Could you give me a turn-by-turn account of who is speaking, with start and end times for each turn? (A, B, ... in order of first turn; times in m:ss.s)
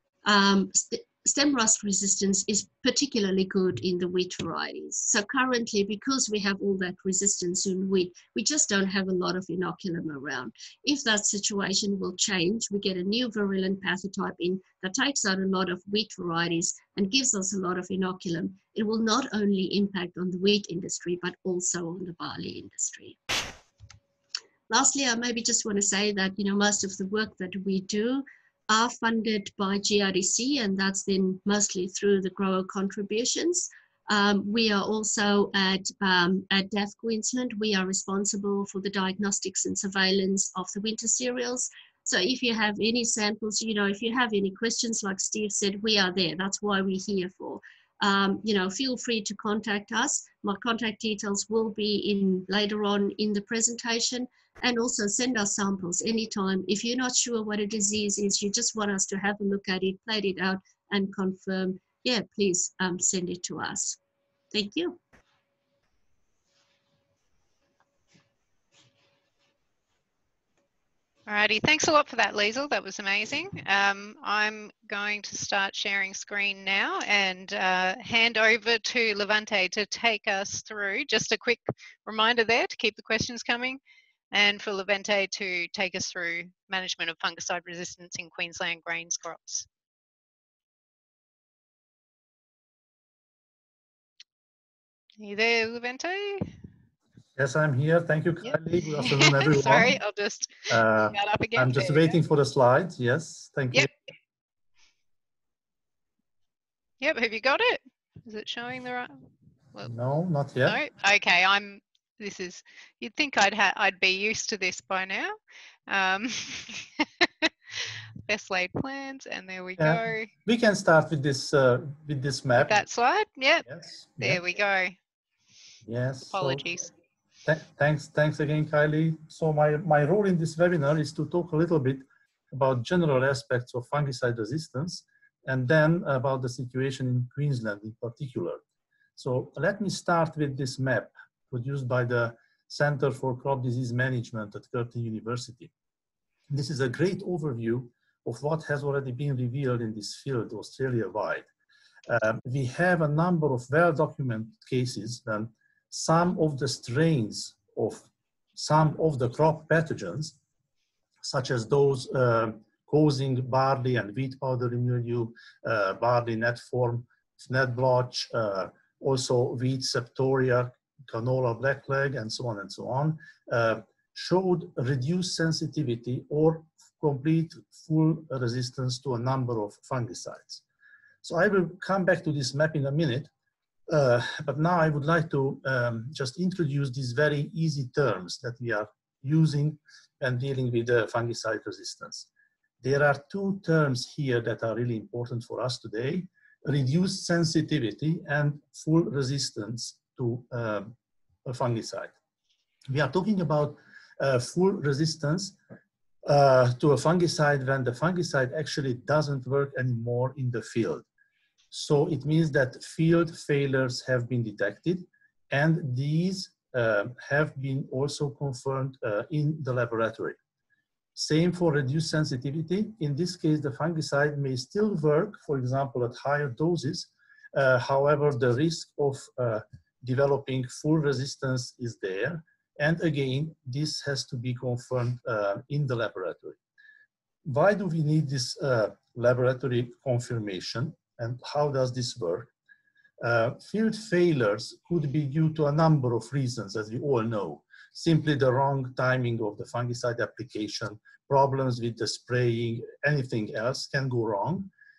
0:00.2-0:23.2 A
0:24.7-1:04.0 A
1:04.5-1:05.0 A
1:11.3-1:23.8 B
1:24.3-1:29.7 B
1:35.2-1:36.5 B
1:37.4-1:40.0 C
1:38.5-1:42.2 B
1:40.7-1:43.9 C
1:47.0-1:49.2 B
1:49.9-1:50.8 C
1:50.6-1:55.4 B
1:55.9-1:57.2 B
1:58.3-2:00.3 B
1:59.8-2:02.8 C
2:02.6-2:03.7 B
2:03.7-2:04.4 C
2:04.2-2:05.0 B
2:05.9-2:06.6 C
2:06.3-2:06.9 B
2:07.4-2:18.6 C
2:19.2-2:25.7 C
2:26.5-2:31.5 C
2:32.1-2:40.4 C
2:41.2-3:00.6 C
3:01.2-3:03.3 C
3:03.9-3:12.3 C
3:12.8-3:20.9 C
3:21.4-3:22.2 C
3:22.9-3:25.6 C
3:26.3-3:31.0 C
3:31.7-3:40.4 C
3:41.2-3:56.6 C
3:57.4-4:02.5 C
4:03.2-4:14.7 C